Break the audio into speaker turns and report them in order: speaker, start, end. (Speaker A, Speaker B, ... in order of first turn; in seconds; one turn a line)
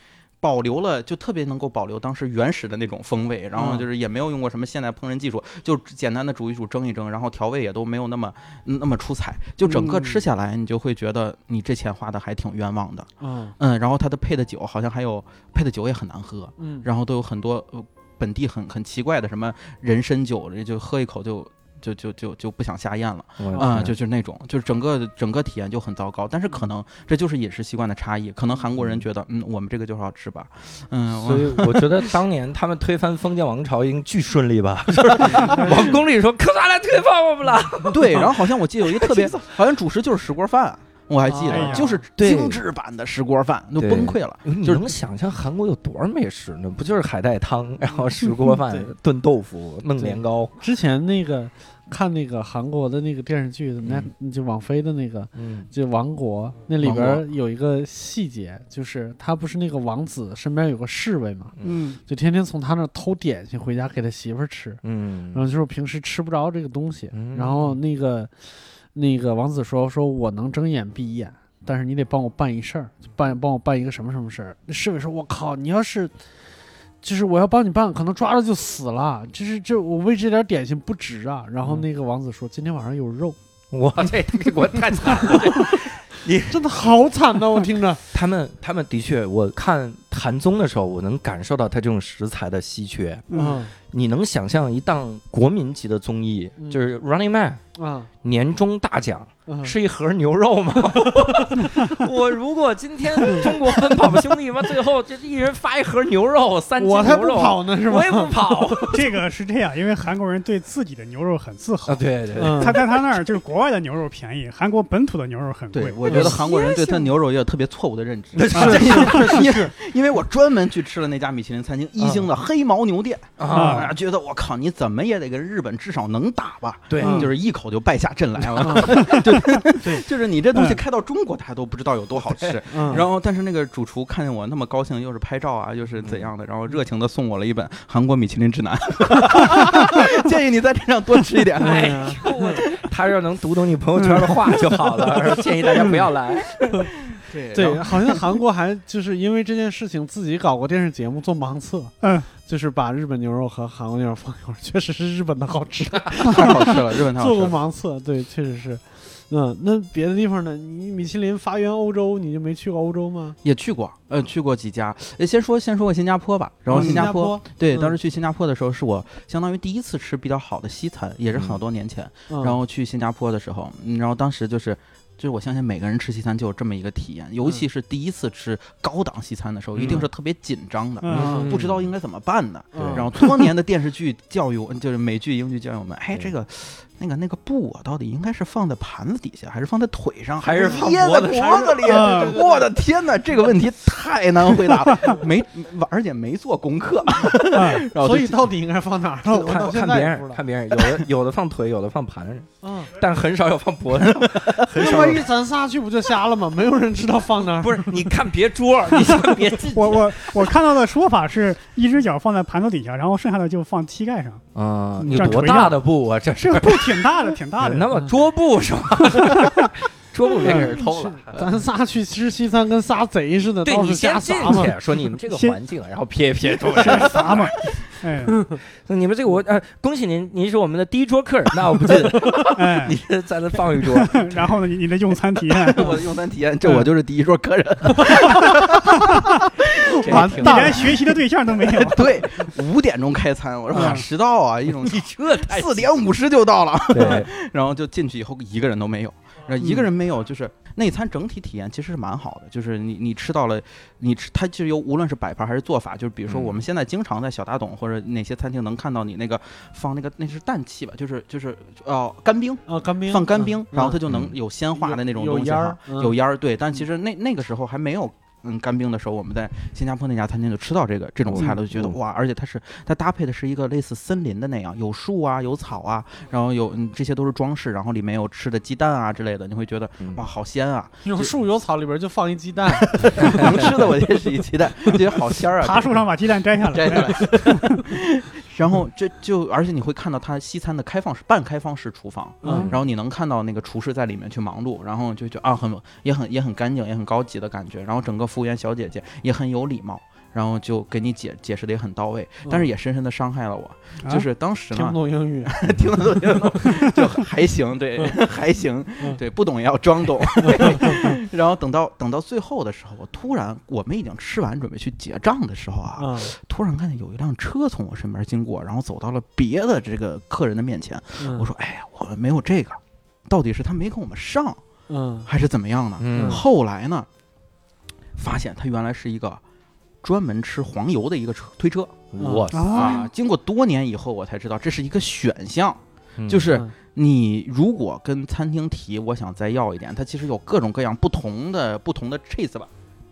Speaker A: 0.4-32.1
Speaker B: 3.5-3.9
Speaker C: 9.7-10.2
Speaker B: 13.2-13.6
Speaker B: 16.6-16.9
Speaker D: 23.4-23.9
Speaker B: 23.5-23.9
Speaker D: 31.1-39.4
Speaker A: 35.0-35.9
Speaker B: 35.4-35.7
Speaker A: 37.9-44.9
Speaker B: 41.3-42.0
Speaker C: 41.5-41.9
Speaker D: 42.2-42.6
Speaker D: 43.8-50.5
Speaker B: 48.4-48.9
Speaker B: 50.0-61.5
Speaker D: 53.8-54.1
Speaker D: 55.4-55.7
Speaker D: 56.8-57.2
Speaker C: 61.6-62.0
Speaker B: 62.1-64.8
Speaker D: 64.8-65.4
Speaker B: 65.3-76.1
Speaker D: 67.1-67.8
Speaker B: 77.0-83.4
Speaker D: 83.7-86.6
Speaker B: 85.3-85.6
Speaker B: 86.5-88.0
Speaker D: 88.1-93.3
Speaker C: 93.3-93.6
Speaker B: 93.3-93.7
Speaker D: 93.9-97.6
Speaker B: 97.8-98.1
Speaker D: 98.2-109.1
Speaker B: 99.5-99.7
Speaker B: 101.0-101.5
Speaker B: 103.2-103.5
Speaker B: 106.8-108.9
Speaker C: 108.9-117.0
Speaker D: 111.9-112.8
Speaker B: 112.4-112.9
Speaker A: 115.7-142.2
Speaker B: 116.1-116.4
Speaker D: 118.3-119.5
Speaker C: 118.5-119.0
Speaker B: 118.6-119.6
Speaker D: 122.0-122.3
Speaker D: 123.4-123.9
Speaker C: 123.5-123.9
Speaker D: 126.9-127.2
Speaker B: 127.0-127.3
Speaker B: 128.6-129.1
Speaker C: 128.9-129.6
Speaker C: 130.5-130.8
Speaker D: 132.3-133.0
Speaker B: 132.7-133.1
Speaker B: 141.6-142.6
Speaker D: 141.6-146.7
Speaker C: 144.0-144.3
Speaker A: 146.7-148.2
Speaker B: 147.5-163.4
Speaker C: 152.0-152.3
Speaker A: 156.2-157.6
Speaker A: 163.4-198.5
Speaker B: 166.7-168.0
Speaker C: 166.8-167.1
Speaker D: 171.3-171.6
Speaker B: 172.3-172.6
Speaker D: 179.8-180.0
Speaker B: 179.8-180.1
Speaker C: 181.0-181.3
Speaker B: 181.1-181.5
Speaker D: 181.1-181.9
Speaker B: 182.7-183.1
Speaker D: 182.8-183.1
Speaker D: 190.4-191.9
Speaker B: 190.6-192.7
Speaker C: 191.8-192.4
Speaker C: 197.5-197.9
Speaker B: 197.9-201.0
Speaker D: 199.3-205.3
Speaker B: 202.6-202.9
Speaker A: 204.0-204.7
Speaker B: 204.7-208.1
Speaker D: 207.6-210.5
Speaker C: 209.7-214.4
Speaker D: 214.6-221.5
Speaker C: 215.0-215.8
Speaker C: 216.4-217.9
Speaker C: 219.1-219.7
Speaker B: 220.4-224.7
Speaker C: 220.4-220.7
Speaker D: 223.6-227.5
Speaker C: 225.3-225.6
Speaker C: 226.8-228.4
Speaker A: 226.8-227.8
Speaker D: 228.8-234.3
Speaker C: 232.5-233.0
Speaker C: 233.8-236.0
Speaker A: 235.5-240.9
Speaker D: 240.0-240.9
Speaker B: 240.1-241.1
Speaker C: 240.1-242.1
Speaker A: 241.6-281.4
Speaker C: 243.7-244.1
Speaker D: 243.7-244.1
Speaker D: 244.7-245.9
Speaker D: 246.9-247.3
Speaker D: 256.3-256.6
Speaker B: 262.7-264.0
Speaker B: 264.7-266.2
Speaker D: 271.3-271.9
Speaker B: 281.1-284.1
Speaker A: 282.7-286.1
Speaker D: 283.2-283.7
Speaker C: 285.6-287.8
Speaker A: 286.6-324.6
Speaker B: 292.4-292.7
Speaker D: 292.4-292.8
Speaker B: 304.7-305.6
Speaker B: 310.4-311.2
Speaker B: 316.0-316.3
Speaker B: 321.2-321.5
Speaker B: 324.9-325.3
Speaker A: 325.3-327.1
Speaker D: 326.0-326.4
Speaker B: 326.1-326.4
Speaker A: 328.2-329.4
Speaker A: 330.0-332.1
Speaker D: 332.1-333.0
Speaker B: 332.2-332.9
Speaker C: 332.5-333.1
Speaker A: 332.7-342.7
Speaker D: 336.2-336.5